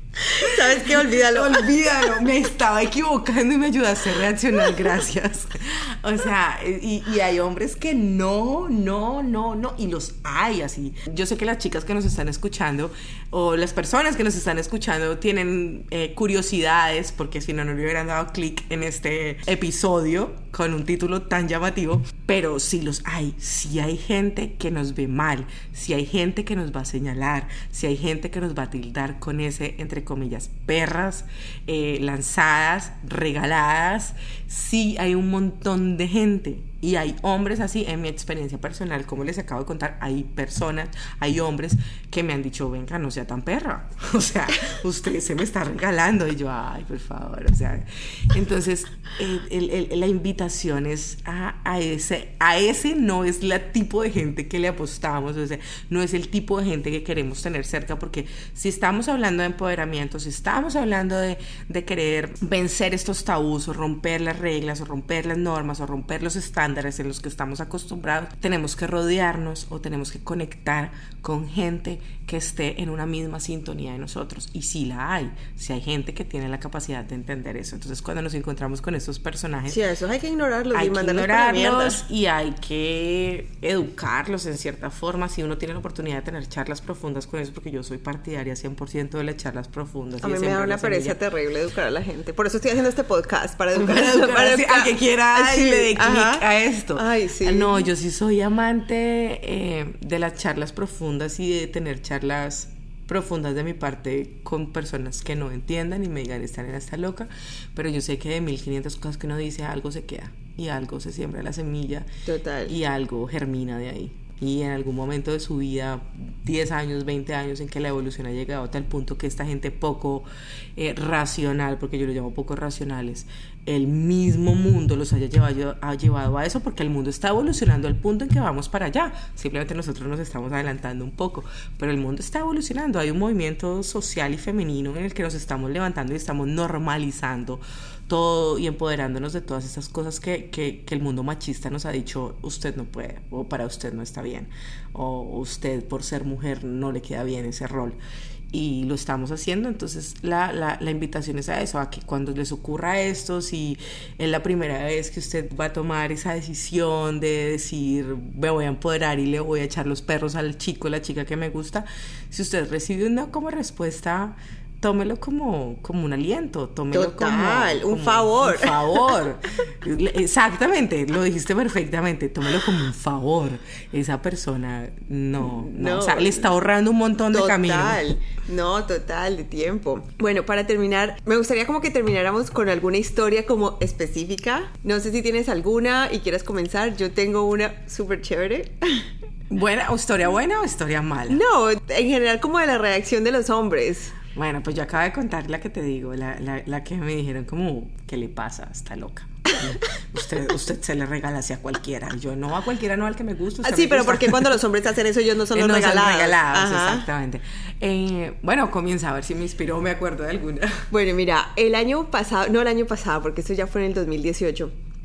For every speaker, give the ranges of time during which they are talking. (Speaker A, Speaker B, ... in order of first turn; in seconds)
Speaker A: 0.3-1.7, 79.7-82.0, 90.2-97.9, 112.3-112.7, 166.9-169.1, 175.4-176.5, 177.3-189.1, 191.3-194.2, 203.6-207.1, 210.9-214.7
Speaker B: 0.3-79.8, 80.7-91.2, 93.8-112.1, 112.7-148.0, 148.5-178.0, 189.5-191.4, 194.3-204.6, 205.5-210.8